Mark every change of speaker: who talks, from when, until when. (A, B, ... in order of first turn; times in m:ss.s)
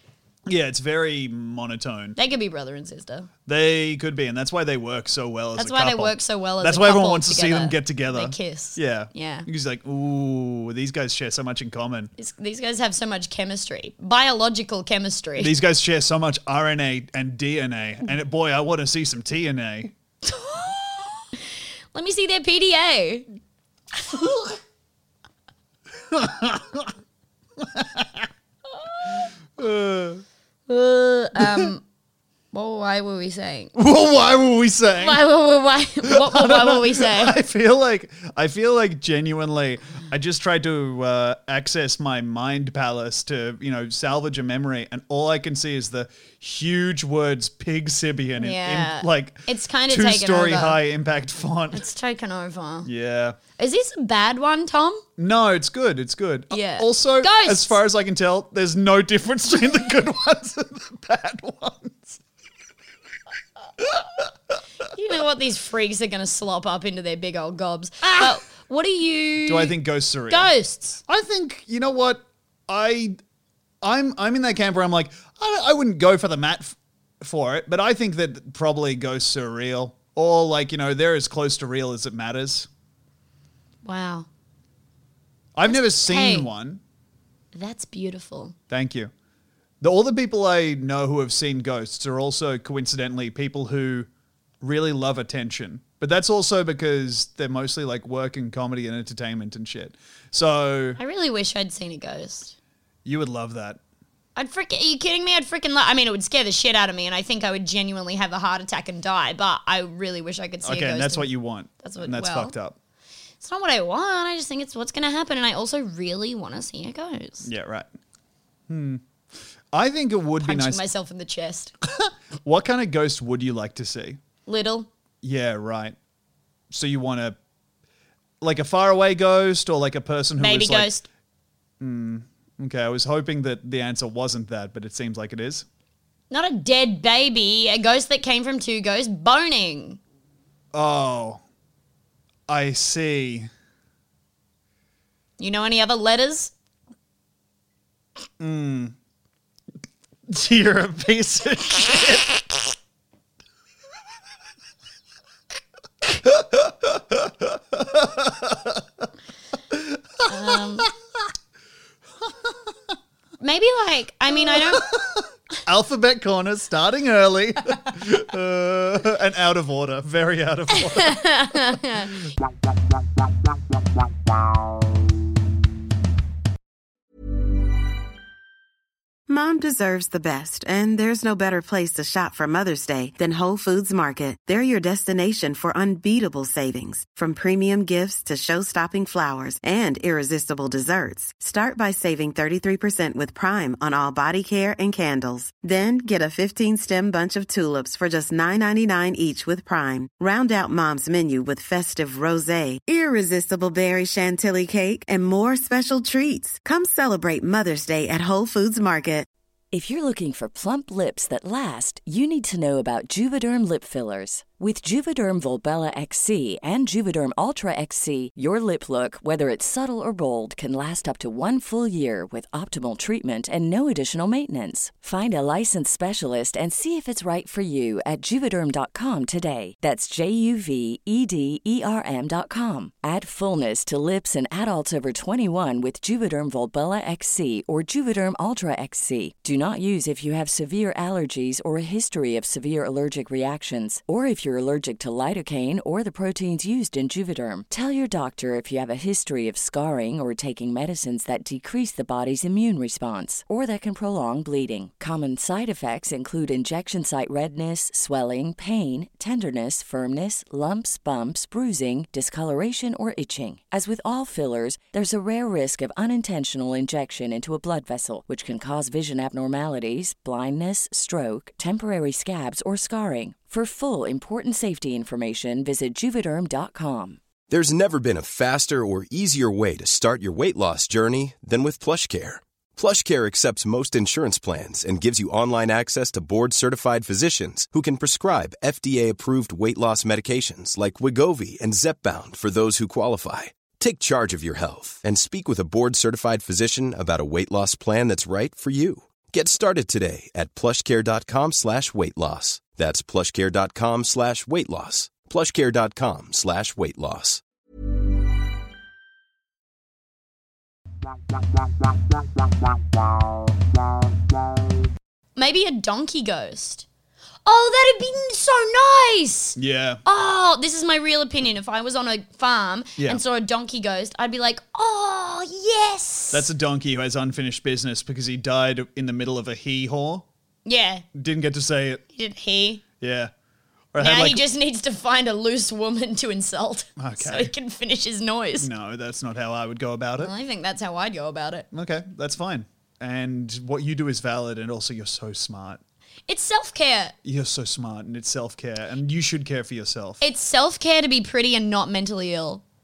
0:00.5-0:02.2 A
0:02.2-0:03.3 B
0:03.5-0:12.1 A
0:05.6-0:09.5 B
0:12.2-0:15.5 B
0:15.4-0:19.9 A
0:20.2-0:23.3 B
0:24.0-0:24.5 B
0:26.1-0:26.9 A
0:27.6-0:28.3 A
0:28.7-0:29.3 B
0:29.6-0:30.2 A
0:30.7-0:31.8 B
0:31.4-0:31.7 A
0:32.5-0:33.7 B
0:33.8-0:35.2 A
0:35.0-0:37.4 B
0:36.0-0:51.8 A
0:48.4-0:50.8 B
0:51.7-0:52.9 B
0:52.8-0:53.4 A
0:53.6-0:55.0 B
0:55.2-1:02.2 A
0:56.5-0:57.8 B
1:03.8-1:04.2 A
1:04.9-1:09.7 B
1:08.0-1:08.3 A
1:09.5-1:10.5 A
1:10.3-1:11.0 B
1:11.1-1:13.2 A
1:13.8-1:22.7 A
1:23.8-1:24.3 B
1:25.6-1:26.8 A
1:25.7-1:26.5 B
1:27.5-1:28.6 B
1:28.7-1:29.1 A
1:29.8-1:34.1 A
1:34.6-1:41.0 A
1:41.0-1:42.5 B
1:43.0-1:43.8 A
1:44.4-1:51.3 B
1:50.6-1:52.8 A
1:51.8-1:52.5 B
1:53.4-1:57.5 B
1:57.4-1:57.9 A
1:58.7-1:59.0 A
1:59.7-2:00.8 A
2:00.4-2:01.7 B
2:01.9-2:04.2 A
2:04.5-2:04.9 B
2:05.2-2:06.0 A
2:06.7-2:07.4 A
2:08.4-2:10.9 A
2:10.4-2:11.0 B
2:11.8-2:15.6 A
2:16.3-2:20.0 B
2:20.7-2:21.4 A
2:22.5-2:23.5 A
2:25.4-2:26.5 B
2:28.4-2:28.9 A
2:30.3-2:32.4 A
2:36.2-2:38.8 A
2:39.7-2:40.9 A
2:40.3-2:40.9 B
2:43.4-2:44.8 B
2:44.4-2:51.6 A
2:50.7-2:52.2 B
2:59.3-3:29.3 C
3:29.7-4:37.2 D
4:37.5-5:07.4 E
5:15.4-5:16.9 B
5:17.4-5:26.5 B
5:19.6-5:20.0 A
5:26.3-5:30.2 A
5:30.6-5:31.0 B
5:31.1-5:32.0 A
5:32.1-5:32.8 B
5:33.0-5:33.3 A
5:33.9-5:34.4 A
5:34.0-5:38.7 B
5:37.0-5:37.5 A
5:38.6-5:40.3 A
5:40.2-5:41.7 B
5:41.7-5:45.8 A
5:46.3-5:47.2 B
5:47.2-5:50.2 A
5:50.2-5:52.6 B